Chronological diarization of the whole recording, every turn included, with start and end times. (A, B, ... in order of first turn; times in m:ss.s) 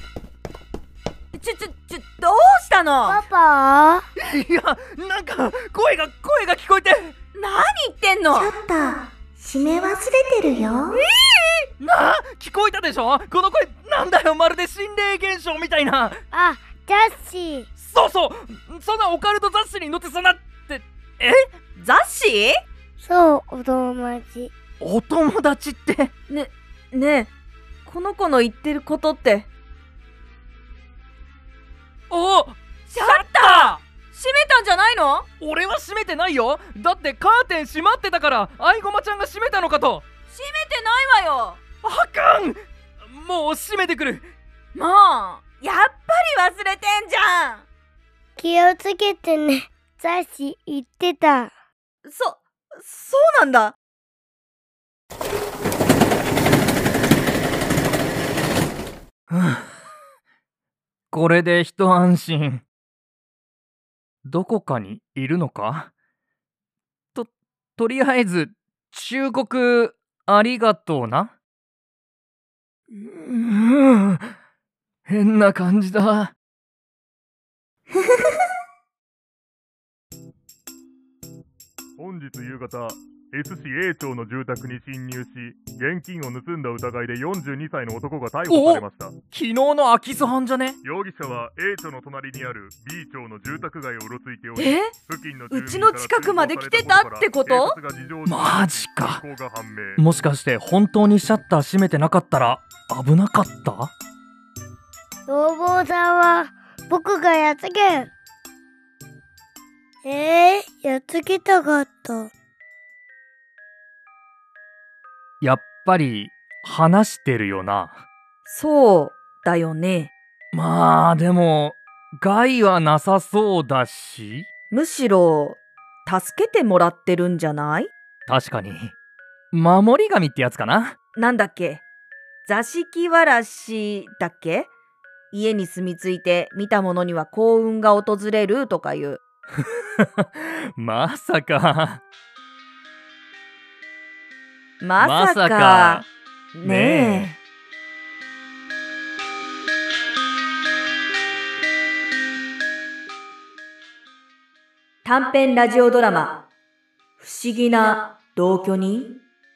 0:01.3-0:03.2 A
0:03.1-0:04.0 B
0:04.2-0:07.1 C
0:07.4-0:08.5 A
0:08.3-0:11.0 D
0:11.0-0:11.7 A
0:11.8-0:16.2 C
0:16.3-0:17.7 B
0:17.8-0:21.4 C
0:21.8-0:22.6 A
0:23.0-0:24.5 B
0:24.8-0:26.1 C
0:26.3-0:27.3 A
0:27.9-0:29.5 A
0:32.1-0:33.8 C
0:32.9-0:35.3 A
0:35.4-0:40.0 C
0:40.3-0:41.6 A
0:41.8-0:44.3 C
0:44.8-0:47.6 A
0:48.4-0:51.5 B
0:52.1-0:53.8 A
0:59.3-0:59.7 C
1:01.1-1:02.6 C
1:04.3-1:05.9 C
1:07.1-1:11.3 C
1:12.9-1:14.3 C
1:15.1-1:16.3 C
1:22.0-1:29.2 E
1:28.5-1:30.8 C
1:30.8-1:40.0 E
1:34.6-1:35.0 A
1:35.5-1:37.8 A
1:38.3-1:39.2 C
1:40.0-1:43.9 C
1:45.3-1:48.1 B
1:50.0-1:52.3 B
1:55.4-1:58.0 C
1:58.5-2:00.1 A
2:00.5-2:04.5 C
2:04.7-2:07.9 A
2:08.3-2:08.9 C
2:09.5-2:11.0 C
2:11.2-2:11.8 A
2:12.4-2:14.7 A
2:15.3-2:19.2 A
2:19.6-2:22.0 C
2:24.8-2:27.4 A
2:25.0-2:26.1 C
2:26.6-2:27.3 C
2:35.0-2:36.4 A
2:37.2-2:39.2 A